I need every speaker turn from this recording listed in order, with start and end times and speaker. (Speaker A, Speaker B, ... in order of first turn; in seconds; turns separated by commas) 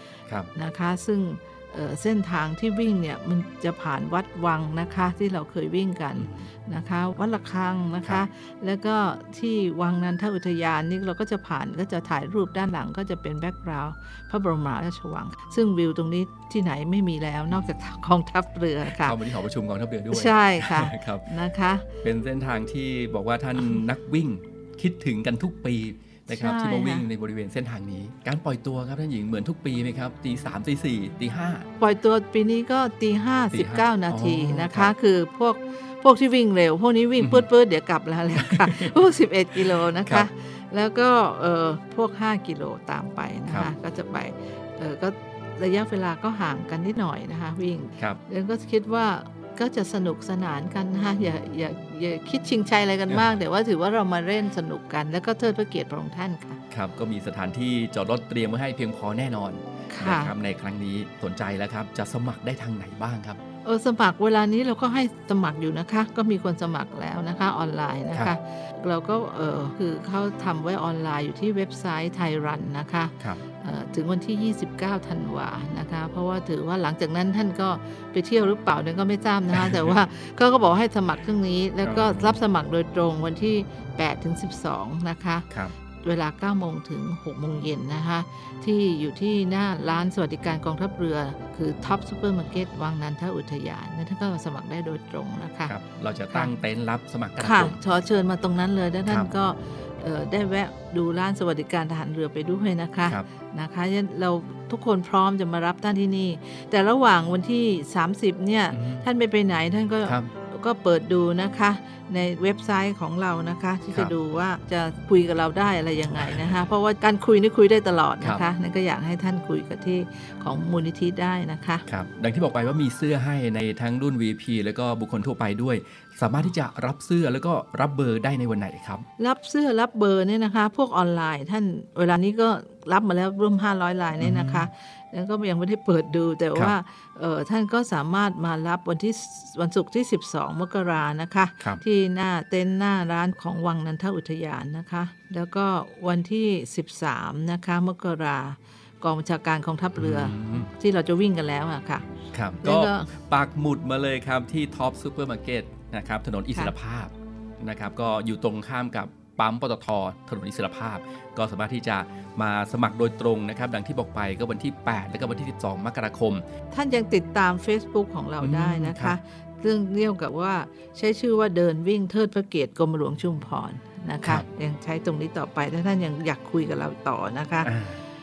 Speaker A: 0.5-19.1, Speaker B: 6.2-6.5, Speaker B: 18.9-21.3, Speaker A: 20.1-21.9, Speaker B: 22.0-31.7, Speaker A: 26.3-27.0, Speaker A: 31.8-56.6, Speaker B: 33.5-34.9, Speaker B: 37.2-37.4, Speaker B: 38.4-38.9, Speaker B: 56.7-63.4, Speaker A: 59.9-60.3, Speaker A: 63.6-85.5, Speaker B: 79.6-79.9, Speaker B: 81.8-82.4, Speaker A: 86.0-95.7, Speaker B: 95.7-97.8, Speaker A: 97.4-121.8, Speaker B: 108.7-109.0, Speaker B: 121.9-129.1, Speaker A: 129.2-152.1, Speaker B: 134.2-134.7, Speaker B: 150.0-150.7, Speaker B: 152.3-166.4, Speaker A: 152.6-153.1, Speaker A: 166.7-177.7, Speaker B: 168.4-169.2, Speaker B: 177.6-178.0